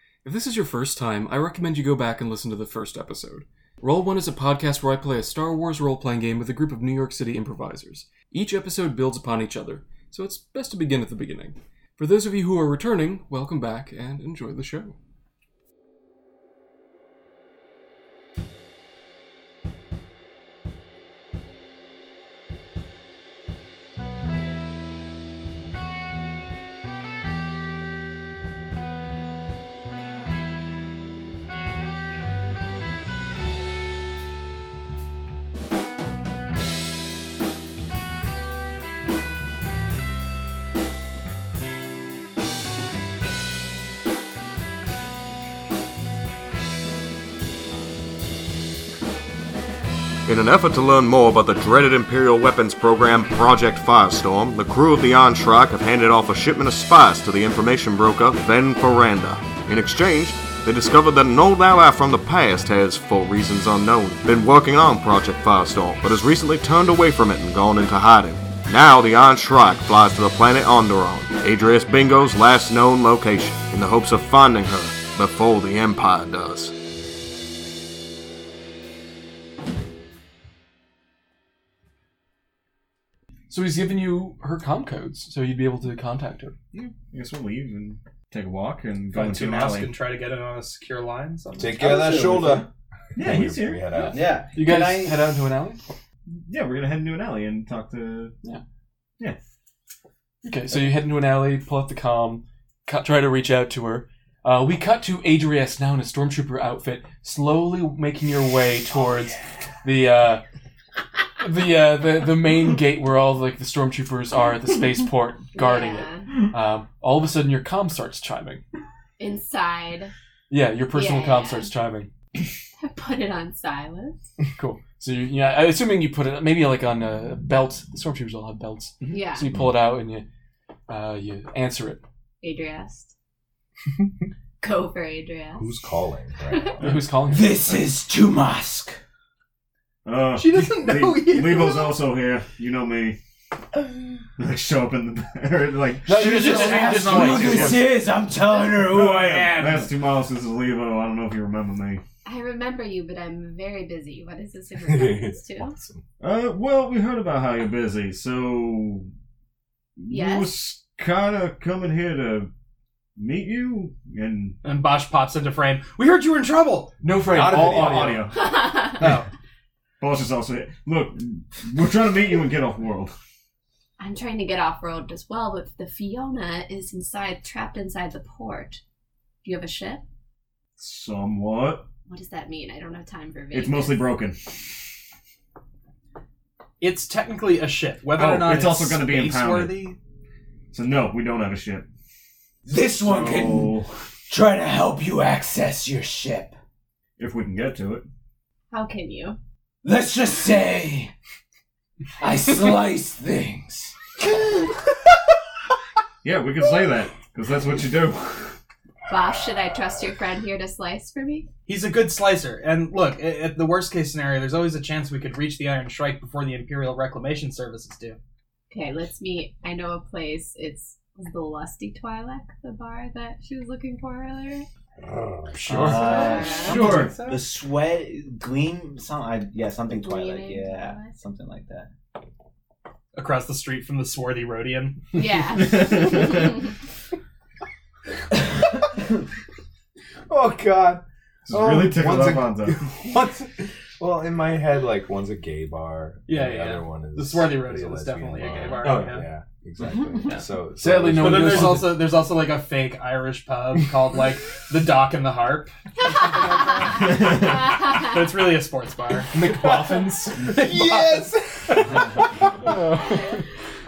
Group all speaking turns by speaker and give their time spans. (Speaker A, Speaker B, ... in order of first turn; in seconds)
Speaker A: 0.2-15.0, 83.5-86.5, 93.9-95.8, 100.4-110.4, 111.4-118.6, 120.5-122.1, 124.5-130.2, 130.9-132.0, 136.8-137.6, 146.1-147.9, 167.0-168.3, 225.6-226.2, 250.8-252.0, 259.3-261.0, 262.6-263.4
Speaker B: 50.3-76.7
Speaker C: 86.7-89.9, 93.2-93.9, 96.2-98.3, 140.0-143.2, 144.4-147.9, 148.7-152.0, 156.2-159.1, 160.0-162.5, 163.2-164.6, 167.2-169.2, 170.0-173.1, 180.8-181.9, 183.5-184.5, 188.1-189.8, 190.7-191.9, 193.0-193.9, 197.2-198.1, 206.2-208.6, 226.7-227.1, 235.7-236.5, 241.4-242.9
Speaker D: 89.1-92.2, 140.3-142.0, 164.6-166.9, 186.8-190.0, 211.7-218.2, 225.7-227.5, 233.1-235.1, 246.3-249.3, 251.2-259.3
Speaker E: 91.6-94.3, 135.6-136.8, 154.8-156.0, 167.3-168.3, 225.0-225.6, 240.3-251.9, 259.5-259.9, 260.4-262.0
Speaker F: 91.8-92.6, 94.1-95.3, 137.3-139.0, 146.1-149.9, 192.7-193.8, 194.3-196.5, 199.8-201.1, 202.2-203.9, 225.7-231.9, 249.9-250.2
Speaker G: 115.5-116.3, 119.2-120.1, 120.9-121.7, 122.8-124.2, 129.1-129.5, 132.4-133.1, 134.6-135.7, 136.5-136.7, 152.2-155.8, 160.1-160.7, 168.3-168.9, 174.0-178.8, 179.4-180.0, 182.1-184.0, 198.7-199.4, 209.1-211.5, 218.7-224.7, 226.1-226.9, 229.9-231.1, 235.1-236.7, 257.0-258.1